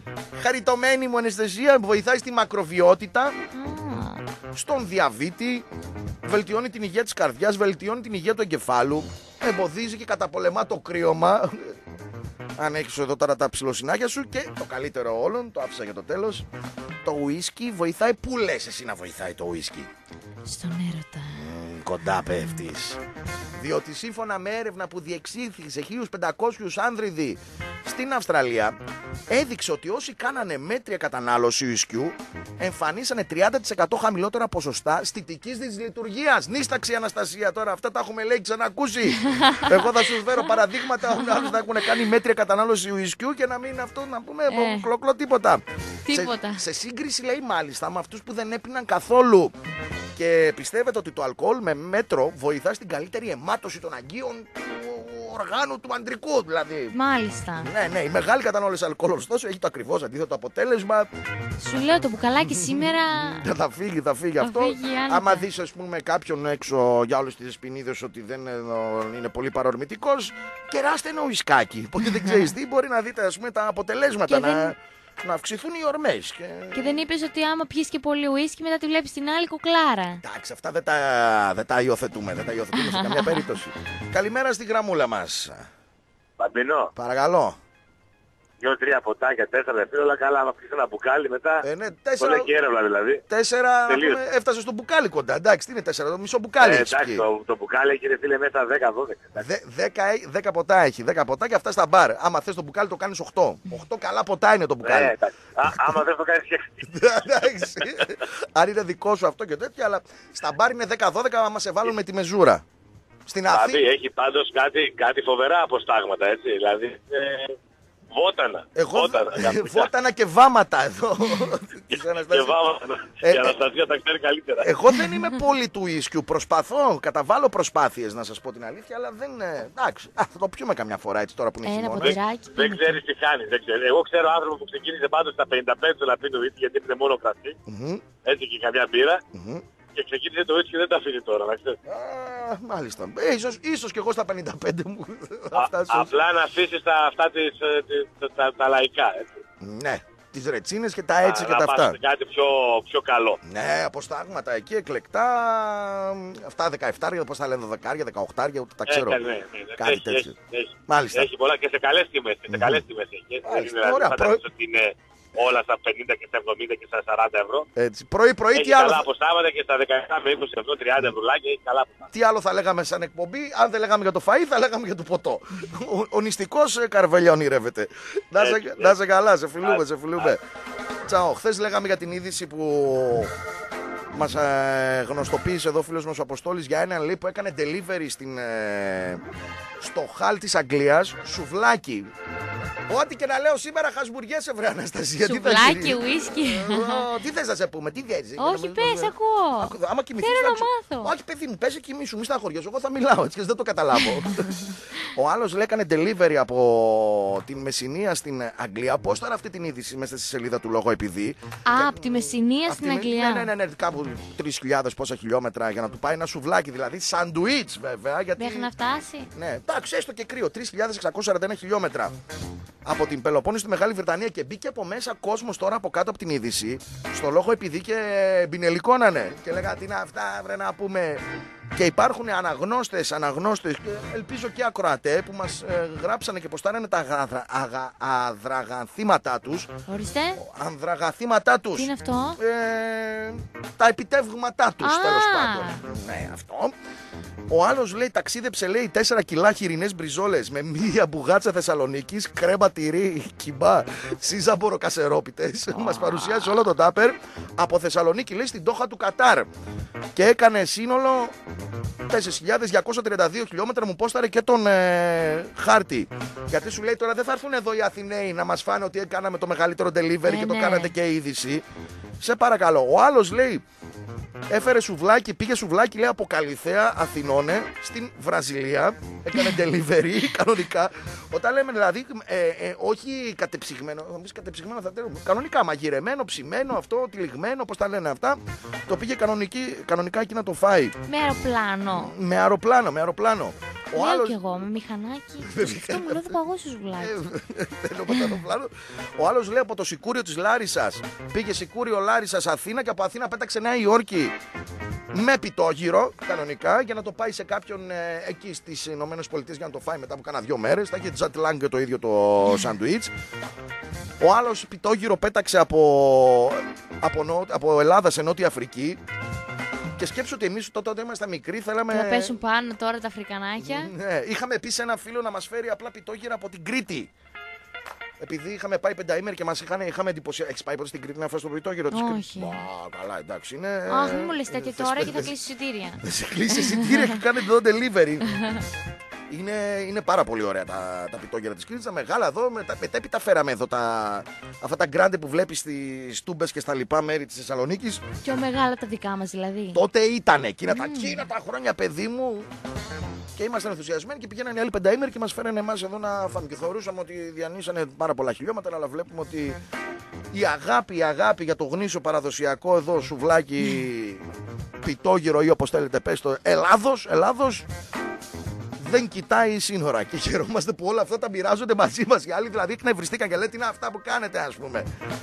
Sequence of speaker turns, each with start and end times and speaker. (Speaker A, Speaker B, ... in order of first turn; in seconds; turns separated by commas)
Speaker A: 0.3-3.3, Speaker B: 3.5-4.2, Speaker A: 4.5-5.7, Speaker A: 6.2-11.8, Speaker A: 12.6-16.4, Speaker A: 17.0-19.9, Speaker B: 20.4-21.5, Speaker A: 21.3-23.0, Speaker A: 23.6-28.8, Speaker A: 29.3-49.5, Speaker B: 39.2-40.5, Speaker B: 41.1-41.5, Speaker B: 44.5-44.9, Speaker B: 46.0-46.6, Speaker A: 50.1-56.9, Speaker B: 56.9-57.7, Speaker A: 57.6-61.1, Speaker B: 61.6-63.5, Speaker A: 62.4-77.0, Speaker B: 64.4-65.4, Speaker B: 72.1-72.5, Speaker B: 74.3-74.7, Speaker B: 76.7-80.2, Speaker A: 80.2-85.7, Speaker B: 82.7-83.5, Speaker C: 86.4-86.9, Speaker A: 87.0-87.6, Speaker C: 88.6-91.6, Speaker A: 91.6-92.5, Speaker C: 92.2-93.2, Speaker A: 93.3-97.2, Speaker C: 93.9-94.2, Speaker C: 96.6-99.4, Speaker A: 99.4-105.1, Speaker C: 104.8-106.7, Speaker A: 106.8-112.6, Speaker A: 113.3-113.8, Speaker C: 113.5-117.5, Speaker C: 118.1-119.9, Speaker A: 118.8-122.5, Speaker C: 121.9-124.7, Speaker A: 123.2-123.5, Speaker A: 124.6-132.2, Speaker B: 131.6-133.0, Speaker C: 132.0-137.6, Speaker A: 137.7-138.0, Speaker C: 138.2-139.2, Speaker A: 139.3-139.6, Speaker C: 139.9-141.8, Speaker A: 141.8-146.1, Speaker C: 145.5-149.4, Speaker A: 149.6-152.0, Speaker C: 151.2-153.4, Speaker A: 153.4-159.2, Speaker C: 158.9-167.7, Speaker A: 159.8-160.3, Speaker A: 160.9-161.3, Speaker A: 162.5-162.8, Speaker A: 163.4-164.4, Speaker A: 167.8-169.1, Speaker C: 168.5-172.1, Speaker A: 172.1-180.4, Speaker C: 178.4-179.0, Speaker C: 179.6-180.3, Speaker A: 181.0-183.3, Speaker A: 184.1-189.2, Speaker A: 189.8-192.1, Speaker A: 192.9-218.7, Speaker B: 195.2-197.0, Speaker B: 198.4-201.1, Speaker B: 204.3-204.8, Speaker B: 211.7-213.5, Speaker B: 218.4-219.3, Speaker A: 219.3-222.2, Speaker A: 222.8-231.2, Speaker A: 231.7-239.7, Speaker B: 239.9-240.4, Speaker A: 240.3-246.7, Speaker B: 241.7-242.4, Speaker B: 244.8-245.8, Speaker A: 247.5-259.5, Speaker B: 255.7-256.6, Speaker A: 260.1-261.3, Speaker A: 262.1-271.6, Speaker B: 270.2-270.9, Speaker A: 272.2-273.6, Speaker A: 274.5-291.0, Speaker B: 291.1-292.1, Speaker A: 291.9-294.4, Speaker B: 293.9-297.2, Speaker A: 295.4-296.4, Speaker A: 297.0-304.4, Speaker B: 298.1-298.4, Speaker A: 305.1-313.1, Speaker A: 314.2-319.0, Speaker A: 320.0-322.3, Speaker B: 321.9-323.9, Speaker A: 323.6-327.1, Speaker A: 328.2-335.3, Speaker B: 331.9-332.6, Speaker B: 333.9-337.2, Speaker A: 336.0-338.4, Speaker B: 338.3-338.6, Speaker A: 339.3-348.0, Speaker B: 348.2-349.8, Speaker A: 349.7-352.5, Speaker B: 350.7-351.2, Speaker A: 353.4-359.6, Speaker A: 360.3-364.2, Speaker A: 364.8-367.7, Speaker A: 368.8-374.9